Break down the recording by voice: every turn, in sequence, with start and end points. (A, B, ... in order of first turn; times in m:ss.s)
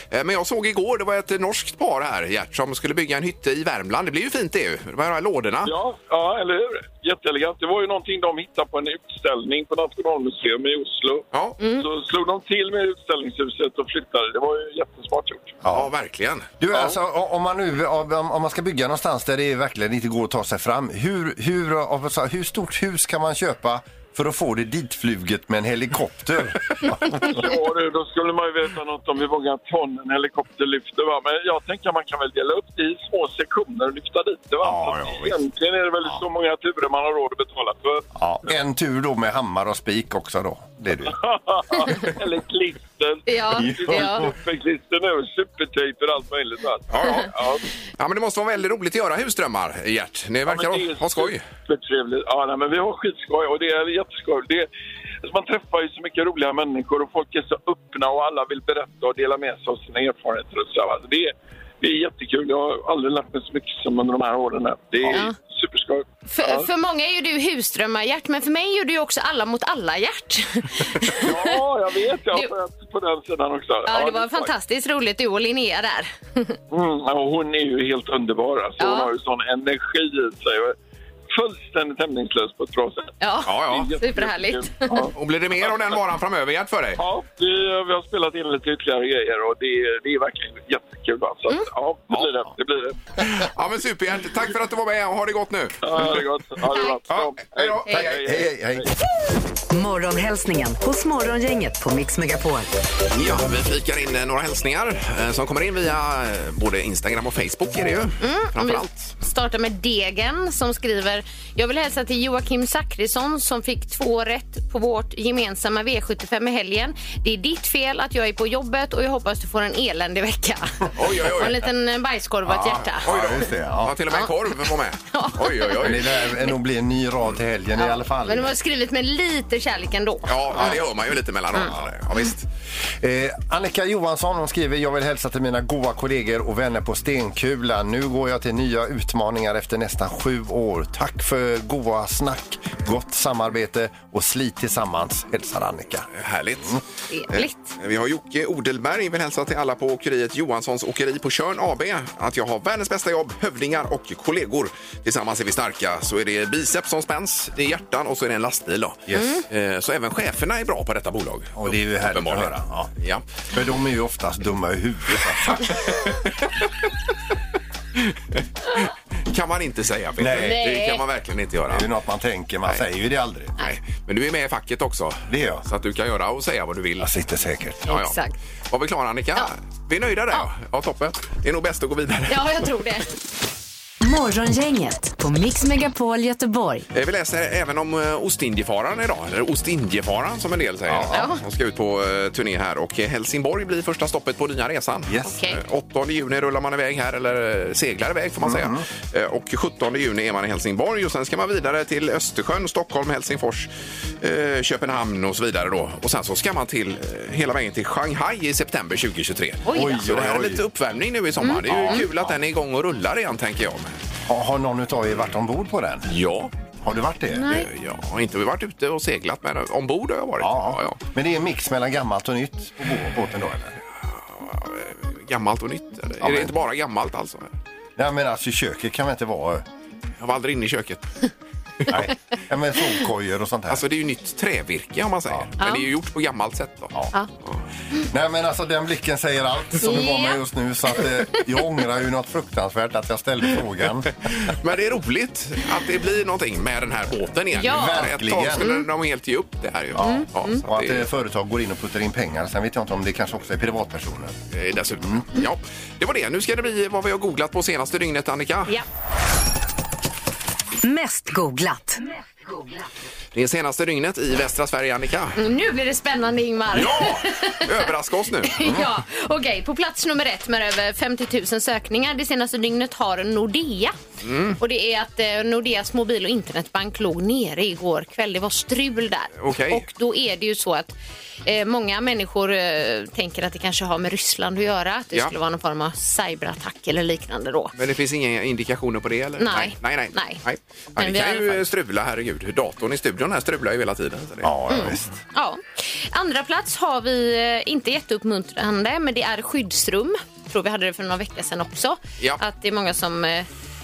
0:00.1-0:05.7 A
0:05.6-0:11.3 B
0:11.3-0:11.6 A
0:11.6-0:11.8 C
0:11.8-0:15.6 B
0:15.6-0:15.9 D
0:15.7-0:16.5 A
0:16.6-0:27.5 D
0:16.7-0:17.0 B
0:27.3-0:38.1 B
0:34.6-0:35.4 D
0:38.1-0:42.0 D
0:41.1-0:47.6 B
0:43.3-0:44.3 C
0:43.5-0:44.3 D
0:46.9-0:47.4 A
0:47.9-0:51.4 A
0:50.4-0:54.7 B
0:55.2-1:06.7 B
1:05.1-1:05.4 C
1:06.3-1:11.6 C
1:11.1-1:14.5 B
1:13.8-1:16.6 C
1:16.7-1:20.7 B
1:18.8-1:19.1 C
1:21.3-1:26.0 B
1:23.2-1:25.1 C
1:23.4-1:23.9 A
1:25.1-1:27.0 A
1:27.0-1:33.0 B
1:33.2-1:36.2 A
1:35.8-1:38.8 B
1:36.7-1:37.0 C
1:37.1-1:38.4 A
1:37.8-1:38.9 D
1:39.7-1:42.7 E
1:43.1-1:49.1 A
1:48.2-2:03.0 C
2:01.0-2:01.6 A
2:02.4-2:04.0 D
2:02.9-2:06.0 A
2:04.1-2:06.5 C
2:05.8-2:08.6 D
2:07.7-2:10.8 C
2:10.3-2:12.5 A
2:13.0-2:26.1 D
2:26.1-2:43.2 A
2:27.1-2:27.7 C
2:39.1-2:39.4 C
2:41.6-2:42.9 D
2:43.5-2:45.8 D
2:48.0-2:51.9 A
2:50.2-2:50.7 D
2:50.3-2:51.0 C
2:51.7-2:53.5 D
2:53.6-2:57.1 A
2:55.3-2:55.6 D
2:57.0-2:57.9 D
2:57.9-2:58.3 C
2:57.9-2:58.2 A
2:58.7-3:02.6 A
3:02.3-3:03.1 C
3:04.0-3:06.8 E
3:06.9-3:23.7 A
3:10.9-3:11.2 D
3:11.1-3:11.4 C
3:15.1-3:15.4 D
3:15.2-3:15.6 C
3:18.4-3:18.8 D
3:24.2-3:34.0 A
3:29.6-3:30.0 C
3:29.7-3:30.6 D
3:31.4-3:32.0 C
3:31.6-3:32.4 D
3:34.3-3:36.1 D
3:36.1-3:36.5 A
3:36.8-3:37.6 D
3:37.3-3:37.6 C
3:37.5-3:41.0 A
3:40.4-3:43.8 D
3:44.2-3:47.5 A
3:46.2-3:46.5 D
3:48.0-3:49.6 D
3:50.2-3:51.1 A
3:51.9-3:53.8 D
3:53.7-3:56.9 A
3:55.6-3:55.9 C
3:58.1-4:04.1 D
3:59.8-4:00.4 C
4:04.2-4:11.1 A
4:07.5-4:08.0 C
4:07.6-4:08.7 D
4:08.6-4:08.8 C
4:09.9-4:14.4 D
4:10.0-4:10.6 C
4:14.5-4:18.8 A
4:20.8-4:22.0 E
4:23.3-4:25.4 A
4:25.4-4:27.8 C
4:26.7-4:28.5 A
4:28.4-4:33.9 C
4:34.2-4:34.6 A
4:34.6-4:47.7 C
4:39.4-4:39.8 A
4:47.8-4:54.5 A
4:49.4-4:50.4 C
4:51.0-4:51.6 C
4:54.4-4:55.2 D
4:54.7-5:03.5 C